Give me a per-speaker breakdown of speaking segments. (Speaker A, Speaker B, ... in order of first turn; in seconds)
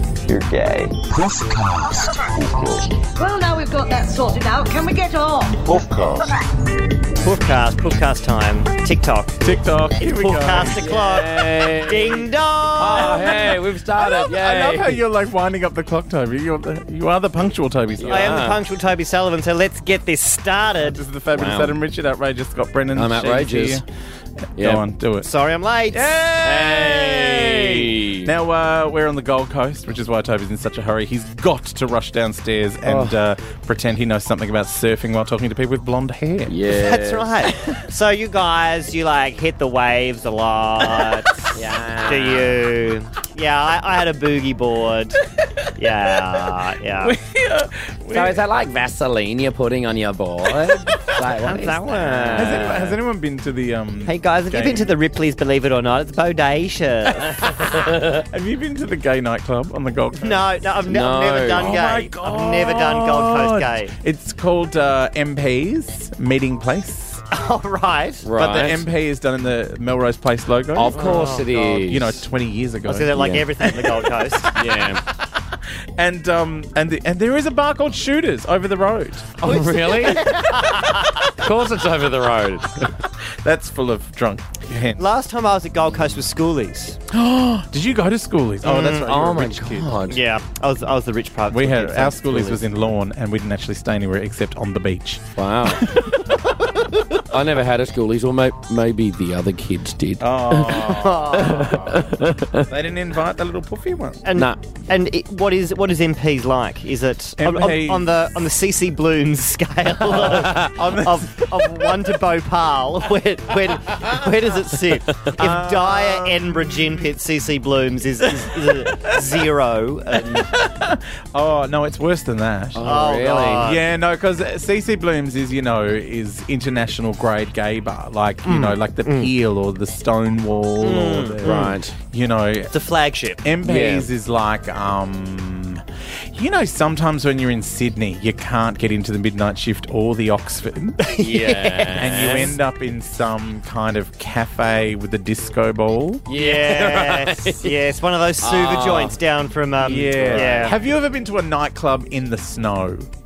Speaker A: 0.3-2.9, 5.6-6.3
Speaker B: 3.2-5.7
Speaker C: 7.2-13.4, 18.1-21.0, 25.2-26.2, 36.7-45.2, 45.8-47.2, 51.3-52.9, 54.1-57.5, 60.2-63.9, 67.3-68.2, 70.9-71.5, 72.9-74.5, 79.4-81.2, 85.0-87.0, 88.6-89.1, 90.1-92.6, 100.7-101.9, 104.2-120.5, 122.8-123.8, 128.4-129.3, 130.8-131.8, 132.7-133.4, 141.0-142.3, 146.3-150.8
Speaker D: 9.4-11.0, 12.8-18.5, 20.8-23.9, 24.6-25.3, 25.9-36.5, 40.8-41.3, 45.4-48.4, 50.5-51.1, 52.4-55.0, 57.1-60.6, 61.5-67.2, 68.3-75.1, 76.0-79.3, 83.4-85.0, 87.1-90.0, 91.5-96.3, 100.2-104.2, 107.4-108.1, 110.0-112.1, 115.3-116.7, 118.6-119.2, 120.2-132.7, 133.4-141.0, 141.9-146.3, 149.8-153.1
Speaker E: 10.8-15.0, 18.0-18.6, 21.4-21.8, 22.9-23.8, 24.6-24.9, 26.4-28.3, 32.9-33.2, 36.5-37.3, 41.5-42.6, 48.1-53.0, 57.7-58.2, 60.9-61.7, 68.2-68.8, 70.8-72.2, 73.2-73.5, 74.5-75.0, 79.4-80.3, 81.3-82.9, 89.1-90.2, 95.4-96.0, 97.3-102.7, 104.3-104.6, 110.2-110.7, 115.1-115.4, 122.8-123.7, 131.4-131.9, 133.6-134.1, 141.2-142.6, 146.3-147.8, 148.4-149.2, 149.8-150.8